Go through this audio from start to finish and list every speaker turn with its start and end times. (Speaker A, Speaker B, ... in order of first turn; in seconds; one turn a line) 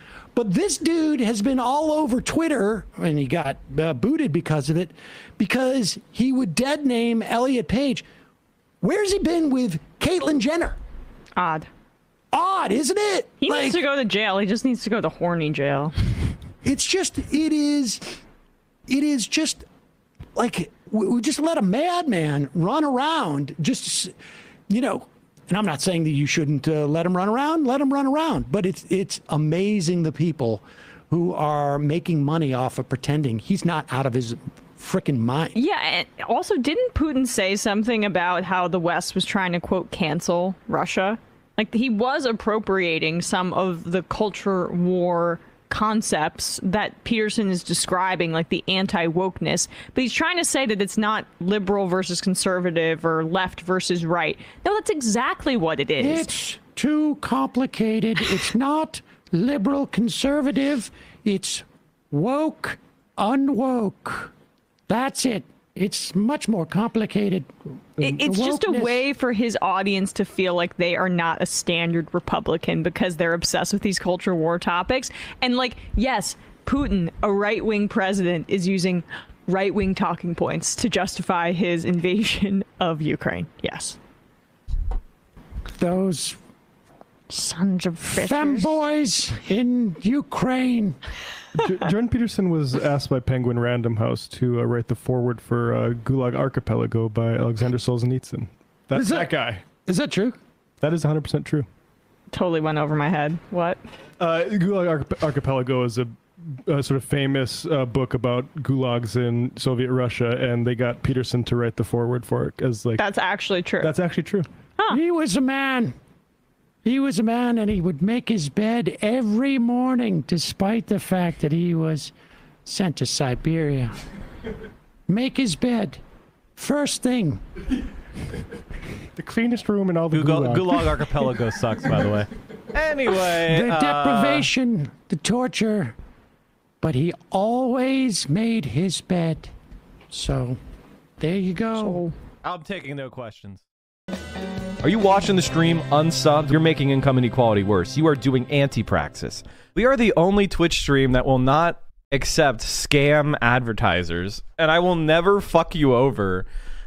Speaker A: 0.4-8.1
Speaker A: 8.8-10.8
Speaker B: 11.4-11.7
Speaker A: 12.3-13.9
Speaker B: 13.4-15.9
Speaker A: 16.6-18.2
Speaker A: 18.9-19.6
Speaker A: 20.4-24.1
Speaker A: 24.7-35.6
Speaker B: 35.5-56.4
Speaker A: 56.0-64.3
Speaker A: 64.9-69.1
Speaker B: 68.0-84.0
Speaker A: 85.7-86.4
Speaker B: 87.3-88.8
Speaker A: 88.1-91.0
Speaker C: 91.6-99.6
Speaker A: 98.9-99.3
Speaker A: 99.8-100.4
Speaker C: 100.8-101.7
Speaker B: 102.3-103.8
Speaker C: 104.2-113.0
Speaker B: 113.0-114.0
Speaker C: 113.8-114.5
Speaker A: 114.9-116.0
Speaker A: 116.8-122.1
Speaker A: 122.7-124.0
Speaker A: 125.1-126.0
Speaker A: 126.6-127.4
Speaker C: 129.2-132.2
Speaker D: 130.1-134.5
Speaker A: 133.5-136.0
Speaker A: 136.8-139.5
Speaker A: 140.1-140.6
Speaker A: 141.2-142.1
Speaker B: 141.8-142.1
Speaker D: 142.4-143.6
Speaker D: 144.8-156.5